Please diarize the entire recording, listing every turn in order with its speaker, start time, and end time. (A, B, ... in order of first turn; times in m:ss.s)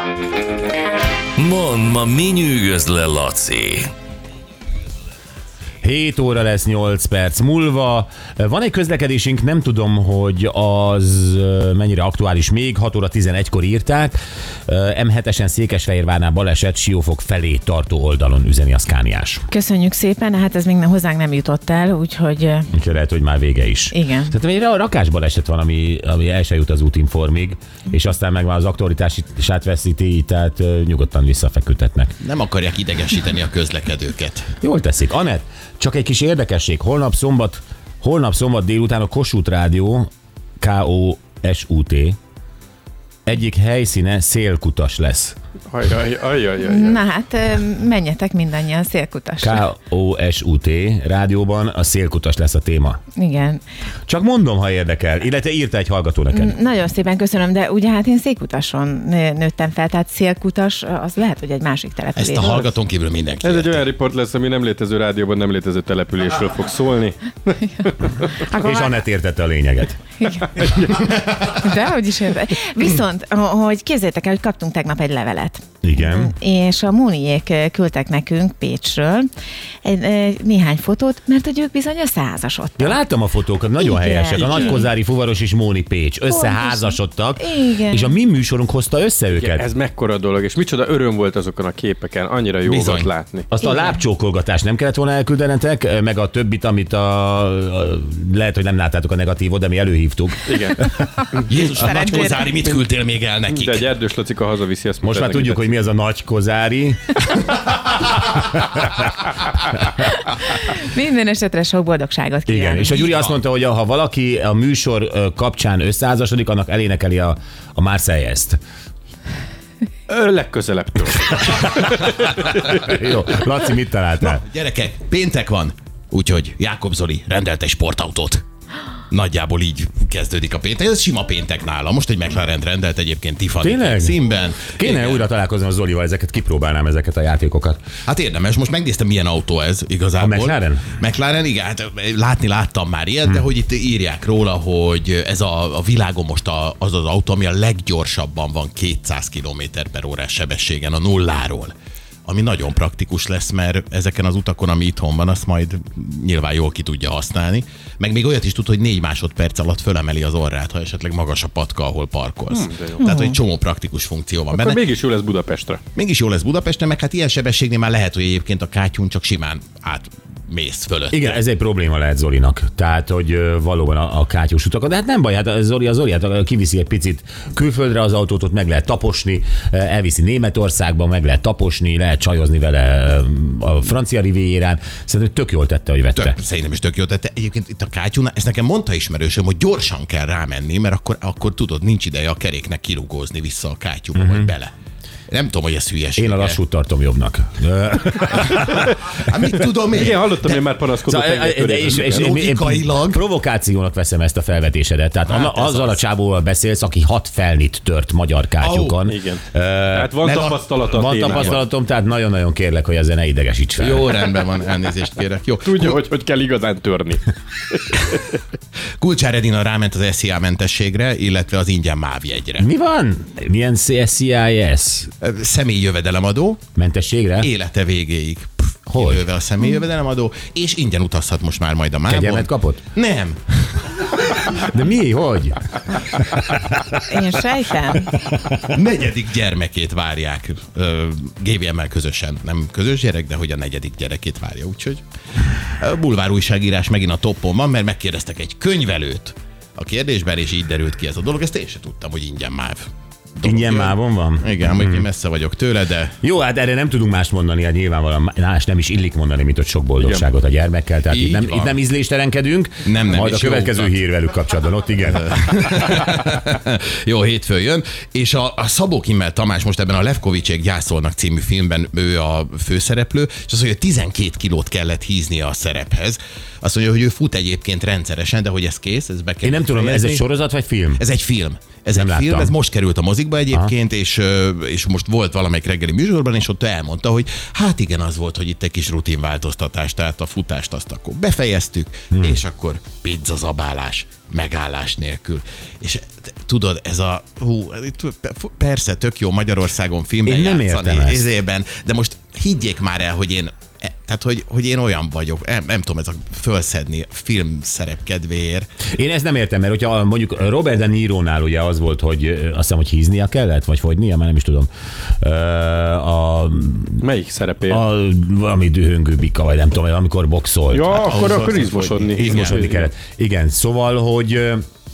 0:01.4-0:03.9 A
0:05.8-0:14.2 B
0:14.7-0:19.4 B
0:19.5-0:22.7 C
0:22.7-0:32.2 B
0:23.9-0:24.3 C
0:32.2-0:34.5 D
0:34.6-0:40.1 B
0:40.6-0:42.2 B
0:43.2-0:45.4 B
0:45.7-0:47.0 E
0:46.6-0:49.6 C
0:49.4-0:53.0 B
0:53.1-0:53.6 C
0:54.1-0:56.6 B
0:56.3-1:02.7 C
1:02.2-1:03.9 D
1:03.4-1:07.9 E
1:08.3-1:09.0 C
1:08.5-1:10.0 B
1:10.2-1:19.3 C
1:15.8-1:16.3 B
1:19.8-1:23.0 C
1:22.8-1:29.6 B
1:23.8-1:24.9 C
1:26.2-1:28.2 C
1:29.4-1:33.5 E
1:32.7-1:33.1 D
1:33.5-1:40.5 B
1:33.6-1:34.0 C
1:40.4-1:40.8 E
1:41.5-1:43.9 D
1:41.6-1:42.5 C
1:43.5-1:45.7 E
1:45.0-1:48.8 B
1:50.4-1:53.0 C
1:52.5-1:58.6 B
2:00.1-2:02.7 E
2:02.6-2:04.4 B
2:04.2-2:08.4 D
2:09.1-2:15.3 D
2:13.6-2:17.8 B
2:18.0-2:31.7 D
2:20.2-2:20.9 B
2:32.2-2:44.8 D
2:42.5-2:43.1 E
2:43.0-2:43.3 C
2:44.5-2:45.8 E
2:45.9-2:51.4 D
2:51.1-3:06.4 B
3:06.2-3:14.7 D
3:14.1-3:14.5 B
3:15.3-3:16.6 D
3:16.2-3:19.5 B
3:19.2-3:20.7 D
3:19.9-3:22.3 E
3:21.1-3:30.2 B
3:22.2-3:23.2 D
3:25.5-3:25.9 D
3:28.6-3:28.9 D
3:29.0-3:31.6 E
3:30.3-3:30.6 D
3:30.9-3:34.1 B
3:33.8-3:35.9 D
3:35.6-3:38.4 E
3:39.0-3:42.6 D
3:42.6-3:45.1 B
3:45.2-3:46.6 D
3:46.8-3:47.5 B
3:47.4-3:54.0 D
3:48.9-3:49.3 B
3:52.1-3:52.8 B
3:54.4-3:57.0 B
3:57.1-3:58.1 C
3:58.3-3:58.6 B
3:58.7-4:05.0 D
4:05.7-4:16.1 D
4:13.4-4:15.1 B
4:16.2-4:25.6 B
4:21.1-4:21.7 D
4:22.8-4:24.0 D
4:25.3-4:40.2 D
4:39.4-4:41.0 B
4:41.0-5:08.7 D
4:41.9-4:42.5 B
4:52.1-4:52.4 B
5:00.2-5:01.3 B
5:08.9-5:14.7 B
5:15.2-5:17.0 B
5:17.0-5:17.8 E
5:17.6-5:21.0 B
5:20.7-5:22.8 E
5:20.9-5:22.5 D
5:22.2-5:24.6 B